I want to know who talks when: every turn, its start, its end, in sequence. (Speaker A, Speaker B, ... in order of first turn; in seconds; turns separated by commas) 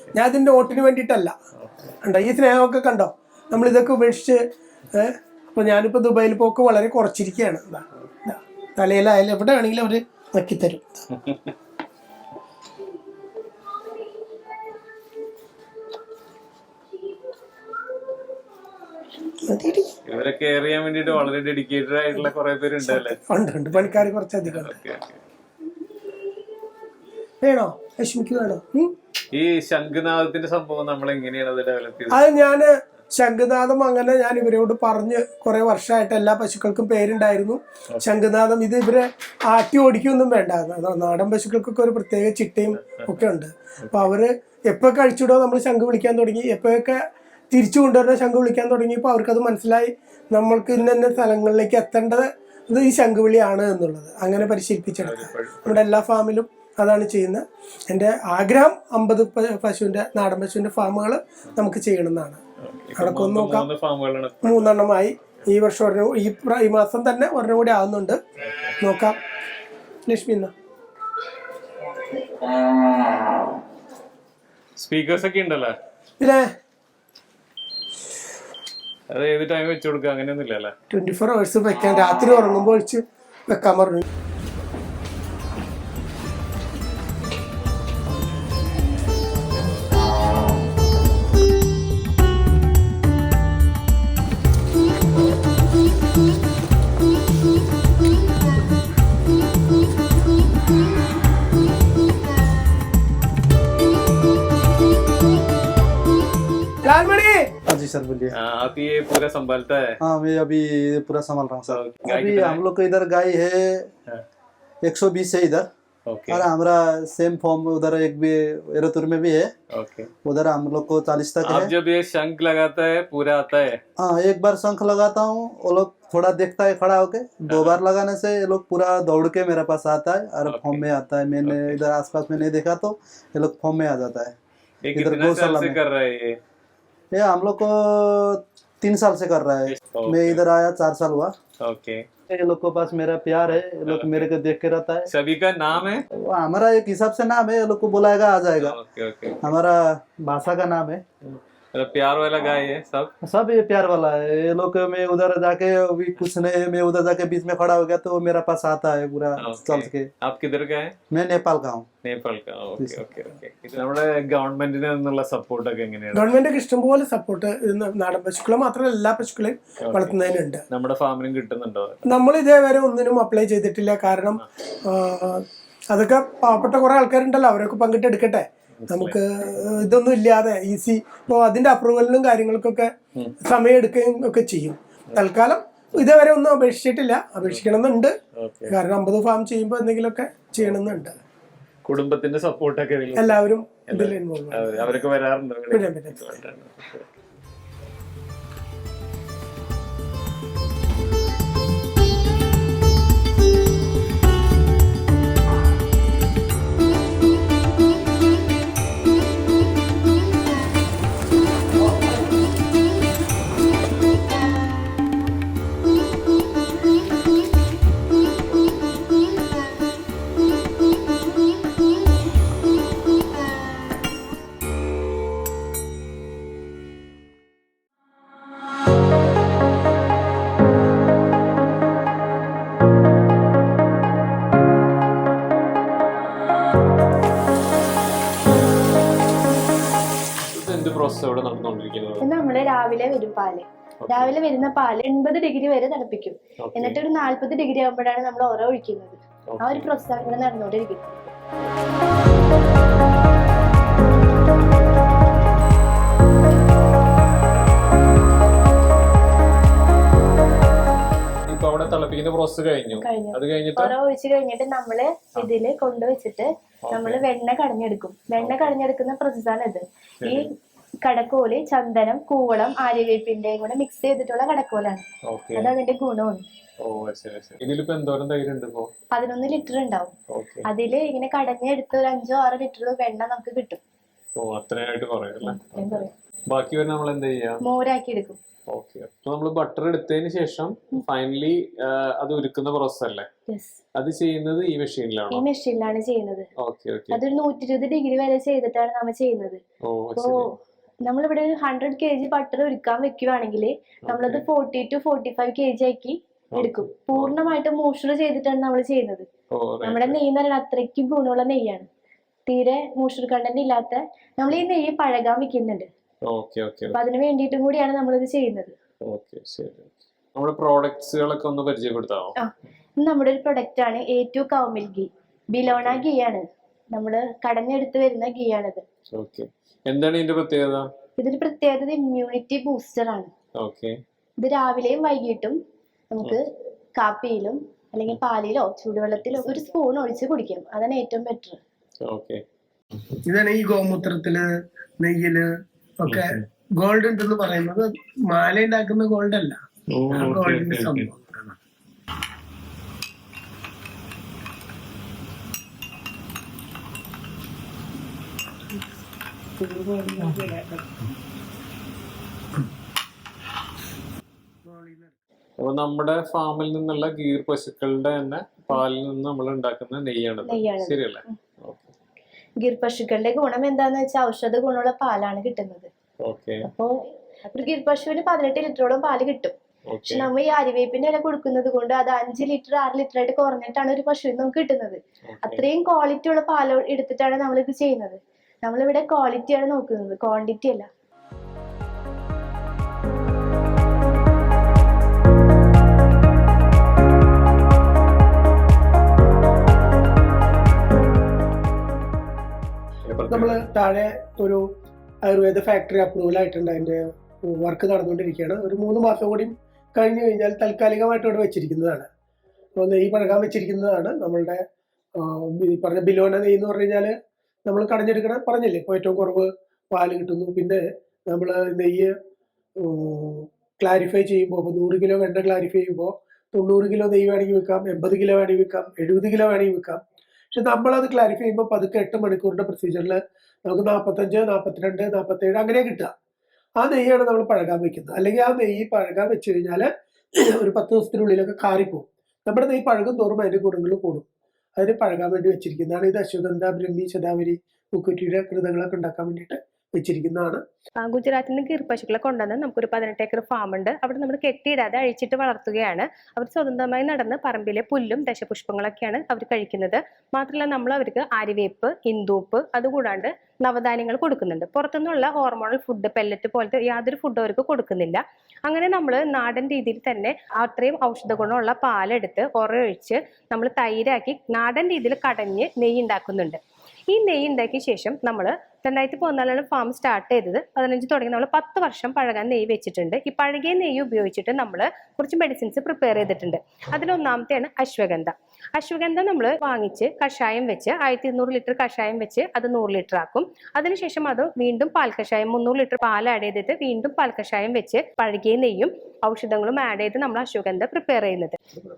Speaker A: 0.1-1.4, Speaker B: 1.6-1.9, Speaker A: 2.0-11.1, Speaker A: 19.4-19.9, Speaker B: 20.1-23.2, Speaker A: 22.8-24.8, Speaker B: 23.7-25.1, Speaker A: 27.4-28.9, Speaker B: 29.3-32.2, Speaker A: 32.1-62.4, Speaker B: 54.4-55.8, Speaker B: 62.6-64.9, Speaker A: 63.0-63.7, Speaker A: 64.4-68.2, Speaker B: 68.4-68.8, Speaker A: 68.8-69.2, Speaker A: 70.0-70.5, Speaker B: 74.8-75.8, Speaker A: 76.2-76.5, Speaker B: 79.1-80.7, Speaker A: 80.9-84.0, Speaker A: 106.8-107.5, Speaker C: 107.7-108.3, Speaker B: 108.3-110.0, Speaker C: 110.0-113.9, Speaker B: 111.7-112.6, Speaker C: 114.8-115.7, Speaker B: 116.1-116.4, Speaker C: 116.3-119.5, Speaker B: 119.7-120.1, Speaker C: 120.2-121.7, Speaker B: 121.4-123.8, Speaker C: 124.0-134.3, Speaker B: 127.5-127.8, Speaker B: 130.5-130.8, Speaker B: 131.4-131.8, Speaker B: 134.8-136.4, Speaker C: 134.9-135.8, Speaker C: 137.1-141.3, Speaker B: 139.7-140.4, Speaker B: 141.6-142.1, Speaker C: 142.3-145.1, Speaker B: 143.8-144.3, Speaker B: 145.1-146.0, Speaker C: 146.2-148.8, Speaker B: 148.6-149.4, Speaker C: 149.4-151.0, Speaker B: 151.2-153.1, Speaker C: 153.2-160.1, Speaker B: 159.4-160.9, Speaker C: 161.1-161.9, Speaker B: 162.0-166.3, Speaker A: 166.1-170.6, Speaker B: 169.8-172.0, Speaker A: 172.1-188.1, Speaker B: 178.8-179.2, Speaker B: 187.4-187.7, Speaker B: 188.4-188.8, Speaker A: 188.7-191.2, Speaker B: 190.6-191.1, Speaker B: 191.8-197.1, Speaker A: 193.2-195.1, Speaker A: 195.7-196.4, Speaker B: 240.5-242.2, Speaker D: 242.2-251.3, Speaker B: 244.0-244.3, Speaker B: 246.7-247.0, Speaker B: 249.5-249.9, Speaker B: 261.4-263.9, Speaker D: 263.0-276.4, Speaker B: 266.9-267.2, Speaker B: 268.4-268.7, Speaker B: 275.2-275.7, Speaker B: 276.8-278.9, Speaker D: 279.1-280.1, Speaker B: 280.3-280.6, Speaker D: 280.6-283.8, Speaker B: 284.4-287.6, Speaker D: 285.4-286.1, Speaker D: 287.6-288.4, Speaker B: 288.7-293.3, Speaker D: 293.5-293.8, Speaker B: 293.9-295.4, Speaker D: 295.3-296.5, Speaker B: 296.6-297.2, Speaker D: 297.1-299.6, Speaker B: 299.8-300.5, Speaker D: 300.1-300.5, Speaker D: 301.0-309.3, Speaker B: 304.1-304.4, Speaker B: 306.6-307.3, Speaker B: 309.6-310.2, Speaker D: 309.8-311.9, Speaker D: 312.5-315.9, Speaker B: 316.3-317.0, Speaker D: 316.9-318.7, Speaker B: 319.0-322.4, Speaker D: 322.4-328.8, Speaker B: 325.6-326.0, Speaker B: 329.1-330.9, Speaker D: 331.2-333.3, Speaker B: 333.6-334.0, Speaker D: 334.4-335.6, Speaker D: 336.1-336.4, Speaker D: 337.0-341.6, Speaker B: 342.0-342.4, Speaker A: 343.2-351.4, Speaker B: 346.1-346.4, Speaker B: 349.9-351.1, Speaker A: 359.6-360.8, Speaker A: 364.7-365.0, Speaker B: 365.6-371.9, Speaker D: 370.4-371.4, Speaker D: 372.6-375.9, Speaker B: 376.2-376.6, Speaker D: 376.6-379.5, Speaker B: 379.9-380.3, Speaker D: 380.1-390.9, Speaker B: 385.3-385.6, Speaker B: 403.0-403.6, Speaker A: 403.3-404.7, Speaker A: 405.2-412.1, Speaker A: 412.8-414.6, Speaker A: 415.1-417.1, Speaker A: 417.6-422.1, Speaker A: 422.8-430.0, Speaker A: 430.5-436.1, Speaker A: 436.8-444.2, Speaker A: 444.8-450.6, Speaker E: 451.0-476.6, Speaker E: 477.1-501.6